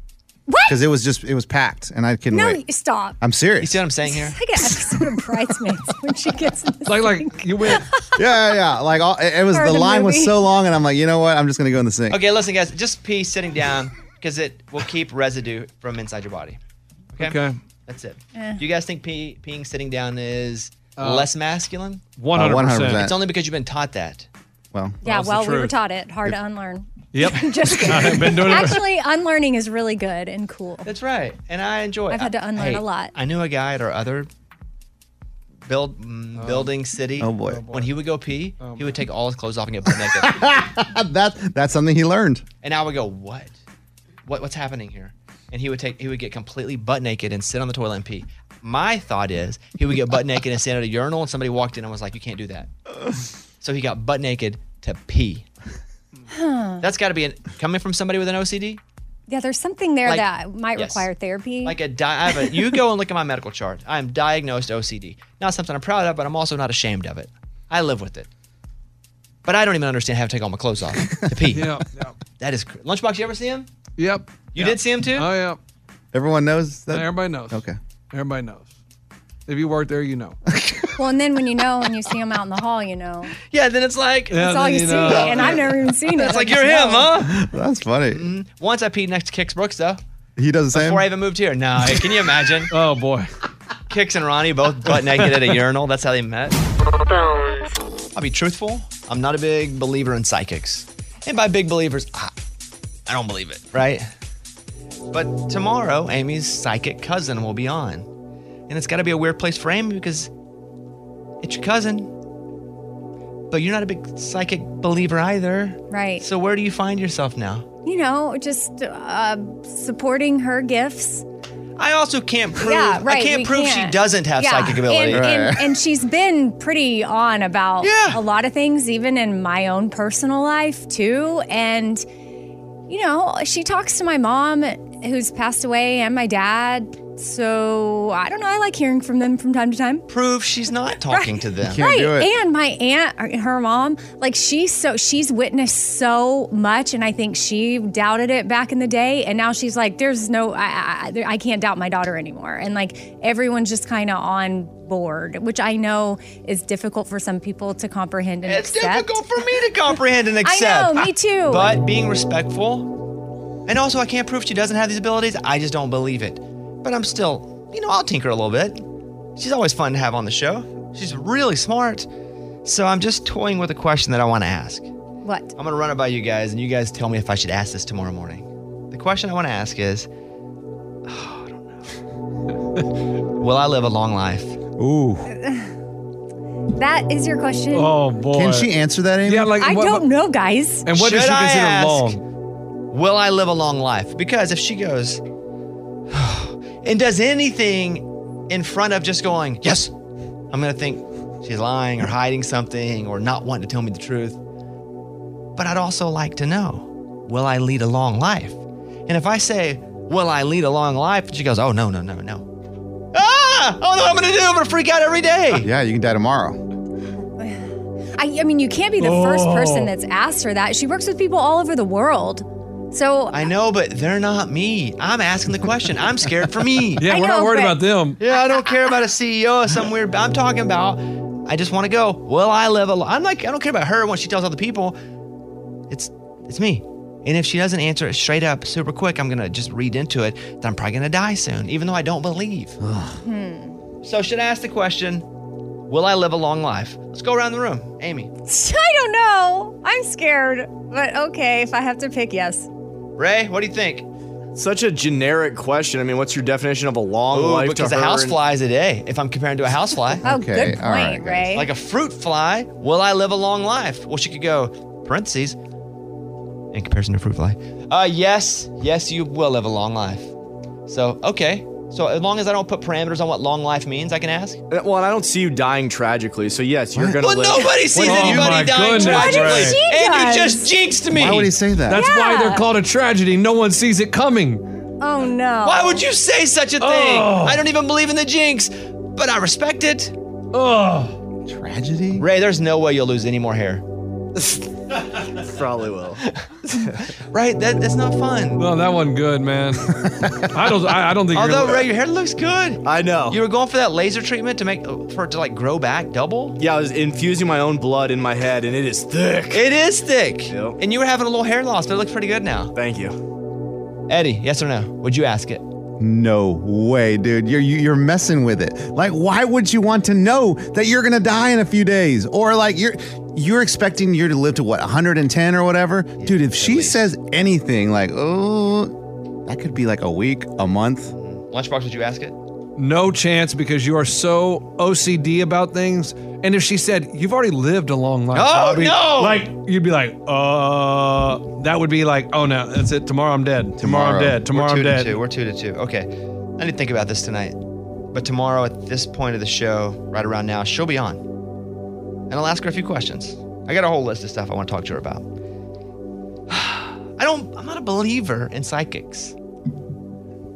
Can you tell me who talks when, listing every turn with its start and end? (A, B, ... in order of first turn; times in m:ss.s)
0:00.5-0:00.8 A
0:00.7-0:02.6 B
0:02.3-0:03.2 A
0:03.2-0:03.8 B
0:03.6-0:04.4 C
0:04.1-0:08.4 A
0:06.9-0:07.8 D
0:08.2-0:12.2 B
0:09.5-0:10.4 A
0:12.1-0:16.6 C
0:17.1-0:22.0 C
0:17.2-0:17.6 D
0:18.4-0:18.6 A
0:21.0-0:21.3 D
0:22.2-0:23.1 D
0:22.3-0:23.1 B
0:22.9-0:24.3 C
0:24.7-0:25.0 B
0:25.0-0:25.7 D
0:25.0-0:30.9 A
0:27.1-0:28.9 D
0:30.8-0:34.3 C
0:32.1-0:33.1 A
0:35.7-0:40.4 C
0:36.4-0:36.7 D
0:37.2-0:37.7 B
0:37.5-0:37.9 D
0:38.6-0:39.0 D
0:39.9-0:42.4 B
0:42.6-0:43.6 C
0:44.3-0:52.7 C
0:53.6-0:55.5 C
0:56.3-0:56.8 A
0:56.8-0:58.8 C
0:59.3-1:01.8 A
1:00.0-1:01.1 C
1:01.6-1:08.3 C
1:09.4-1:11.8 C
1:11.0-1:11.3 B
1:11.5-1:12.2 D
1:12.4-1:13.7 C
1:14.0-1:15.6 D
1:14.5-1:15.3 C
1:16.1-1:17.8 B
1:16.9-1:18.7 D
1:19.5-1:20.4 D
1:20.5-1:21.0 B
1:21.0-1:23.3 A
1:23.5-1:24.4 C
1:24.3-1:25.8 D
1:24.4-1:27.2 A
1:25.0-1:27.4 C
1:27.2-1:28.3 B
1:28.1-1:30.0 C
1:30.4-1:31.1 B
1:30.7-1:32.7 C
1:32.7-1:33.3 D
1:33.9-1:36.6 C
1:38.1-1:42.3 C
1:43.1-1:44.1 C
1:45.1-1:48.1 C
1:48.7-1:50.3 C
1:51.4-1:52.1 C
1:53.5-1:57.7 C
1:55.9-1:56.2 A
1:57.8-2:01.2 A
2:01.8-2:05.3 C
2:02.6-2:12.1 A
2:05.1-2:05.8 B
2:07.8-2:08.2 C
2:12.9-2:20.1 A
2:20.1-2:21.8 C
2:21.1-2:39.2 A
2:21.6-2:22.3 B
2:38.4-2:43.0 C
2:40.4-2:41.8 A
2:43.7-2:48.8 C
2:49.4-2:52.1 C
2:52.6-2:54.9 C
2:55.2-2:55.5 A
2:55.6-3:00.1 C
3:01.1-3:01.9 C
3:03.4-3:04.6 C
3:04.8-3:05.3 B
3:05.3-3:05.7 A
3:06.7-3:08.0 A
3:07.7-3:08.7 D
3:08.3-3:09.5 B
3:09.3-3:10.1 D
3:09.6-3:10.9 A
3:10.8-3:12.2 D
3:10.9-3:12.2 C
3:12.9-3:15.2 C
3:16.1-3:19.9 C
3:20.5-3:24.4 C
3:25.6-3:32.5 C
3:33.1-3:35.7 C
3:35.6-3:36.6 B
3:37.4-3:43.4 A
3:39.0-3:39.9 D
3:43.3-3:47.0 C
3:47.0-3:48.2 D
3:47.1-3:49.0 A
3:48.2-3:55.0 C
3:55.9-4:02.8 C
4:02.8-4:03.2 B
4:03.2-4:03.8 A
4:04.0-4:05.3 C
4:05.9-4:08.3 C
4:08.5-4:12.7 A
4:13.2-4:14.1 C
4:14.6-4:18.4 E
4:17.3-4:20.2 C
4:20.2-4:21.5 B
4:20.2-4:21.7 A
4:21.5-4:25.6 C
4:26.7-4:30.3 C
4:30.9-4:34.6 C
4:34.7-4:38.5 E
4:37.2-4:41.5 C
4:37.9-4:39.8 D
4:38.9-4:40.7 A
4:41.1-4:42.0 B
4:41.9-4:44.6 D
4:41.9-4:42.7 A
4:45.0-4:46.1 A
4:45.6-4:50.2 C
4:46.8-4:47.6 D
4:50.5-4:51.2 D
4:51.5-4:52.3 B
4:52.2-4:53.8 C
4:55.3-4:56.2 E
4:57.3-4:58.6 C
4:58.6-5:01.9 D
5:01.3-5:06.6 C
5:02.8-5:03.4 E
5:06.6-5:09.7 E
5:09.5-5:12.7 C
5:10.5-5:10.8 E
5:12.8-5:13.2 E
5:14.1-5:15.6 C
5:16.0-5:31.1 B
5:26.2-5:27.0 C
5:31.1-5:32.4 C
5:32.8-5:45.2 D
5:38.3-5:39.5 C
5:43.8-5:44.5 B
5:44.5-5:47.6 C
5:48.1-5:51.2 C
5:52.3-5:55.3 C
5:56.5-5:59.4 C